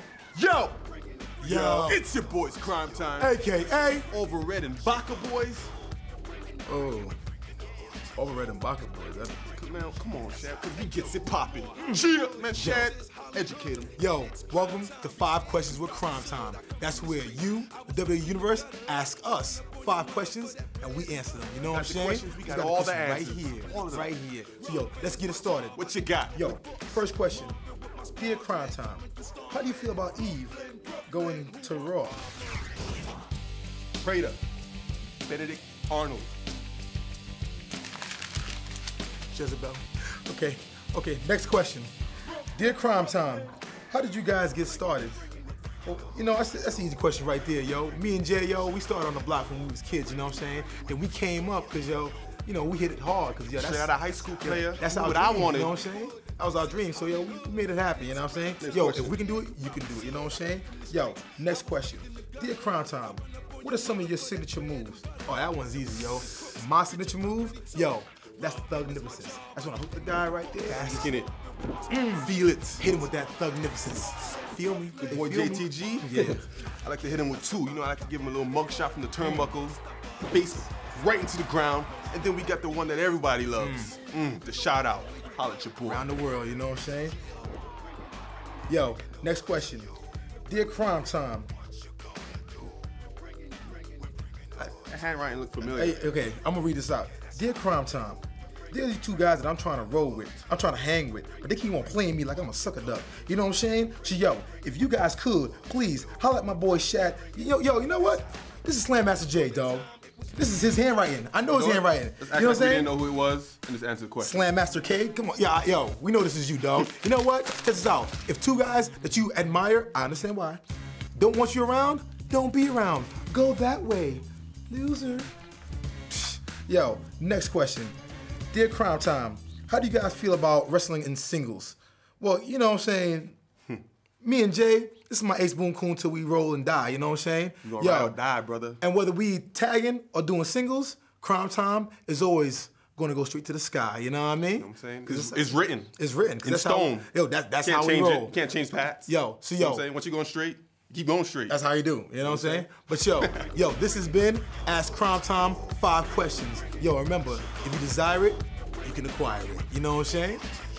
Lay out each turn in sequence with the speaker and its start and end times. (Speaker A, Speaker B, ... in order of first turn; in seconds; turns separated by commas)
Speaker A: 0.3-0.8, Speaker B: 1.4-2.0, Speaker A: 1.4-3.3, Speaker B: 3.2-4.1, Speaker A: 4.1-5.7, Speaker B: 6.7-7.2, Speaker B: 8.2-9.4, Speaker A: 9.5-14.0, Speaker B: 11.8-12.0, Speaker B: 12.5-12.9, Speaker B: 14.0-27.6, Speaker A: 21.6-24.2, Speaker A: 25.8-26.5, Speaker B: 28.1-32.2, Speaker A: 34.0-34.4, Speaker A: 35.2-36.3, Speaker B: 39.3-41.9, Speaker B: 42.5-45.2, Speaker B: 45.8-71.2, Speaker A: 53.5-55.8, Speaker A: 58.6-59.2, Speaker A: 70.7-71.3, Speaker B: 71.9-76.5, Speaker A: 72.2-72.9, Speaker A: 75.0-86.0, Speaker B: 79.2-79.5, Speaker B: 83.6-84.0, Speaker B: 85.8-87.2, Speaker B: 88.7-89.9, Speaker B: 90.5-91.5, Speaker A: 94.7-96.0, Speaker B: 95.6-112.9, Speaker A: 111.5-114.5, Speaker B: 114.2-120.6, Speaker B: 121.2-125.3, Speaker B: 126.1-128.0, Speaker B: 128.5-133.4, Speaker B: 134.2-138.2, Speaker A: 137.6-138.8, Speaker B: 138.8-148.4, Speaker A: 144.6-147.1, Speaker A: 147.6-151.6, Speaker B: 149.1-149.9, Speaker B: 151.5-160.4, Speaker A: 152.2-152.7, Speaker A: 153.2-153.5